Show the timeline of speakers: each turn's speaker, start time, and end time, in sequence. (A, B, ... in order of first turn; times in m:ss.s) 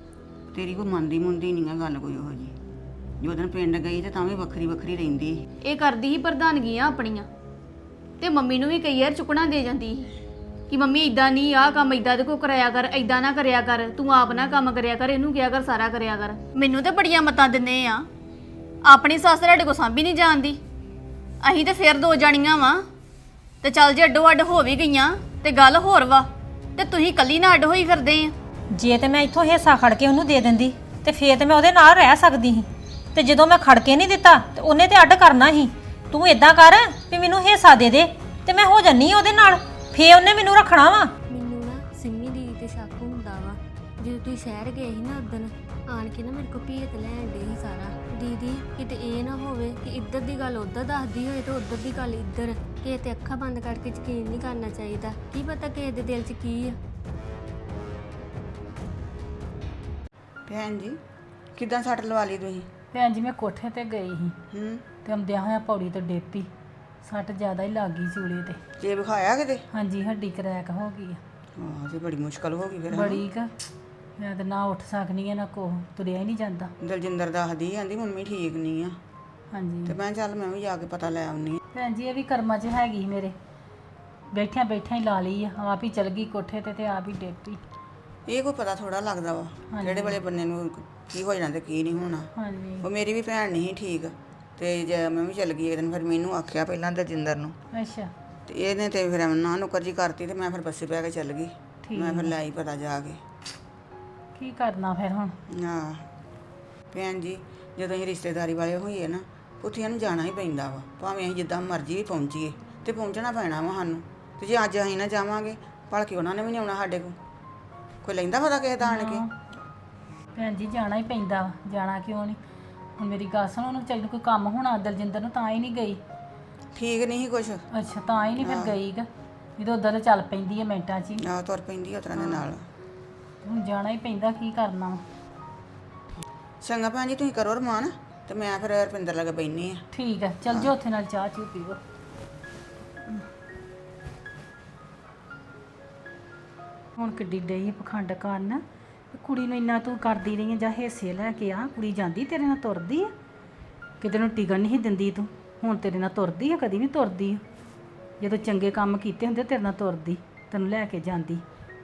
0:00.5-0:02.6 A
0:03.2-0:05.4 A
0:05.6-0:07.3 B
0:08.2-0:10.1 B
0:10.7-0:18.1 B
0:18.9-0:20.6 B
0:21.4-0:22.8 B
0:23.6-0:28.3 B
0:28.7-0:41.1 C
0:41.3-0:56.8 D
1:00.5-1:01.0 A
1:01.6-1:02.7 A
1:02.9-1:04.3 E
1:04.5-1:04.8 A
1:05.0-1:06.5 E
1:07.0-1:08.6 E
1:08.8-1:09.6 A
1:09.7-1:11.2 E
1:11.6-1:13.2 A
1:12.9-1:13.5 E
1:14.2-1:16.7 E
1:16.8-1:19.0 A
1:19.5-1:20.0 E
1:19.8-1:21.6 A
1:21.8-1:23.3 E
1:24.3-1:27.6 E
1:28.3-1:32.3 A
1:29.7-1:30.2 E
1:32.4-1:32.9 E
1:32.8-1:37.6 A
1:37.7-1:38.1 E
1:38.4-1:43.2 A
1:41.9-1:42.3 E
1:44.4-1:45.3 E
1:45.5-1:46.1 A
1:46.9-1:57.2 A
1:58.0-1:59.2 A
1:58.8-1:59.3 E
2:00.4-2:02.4 E
2:03.0-2:06.0 E
2:06.8-2:07.6 A
2:07.7-2:09.1 E
2:08.4-2:08.8 A
2:09.6-2:11.2 E
2:11.2-2:12.6 A
2:13.4-2:15.0 E
2:16.6-2:19.8 A
2:19.9-2:21.8 E
2:27.0-2:33.1 E
2:34.0-2:37.4 E
2:38.2-2:41.4 E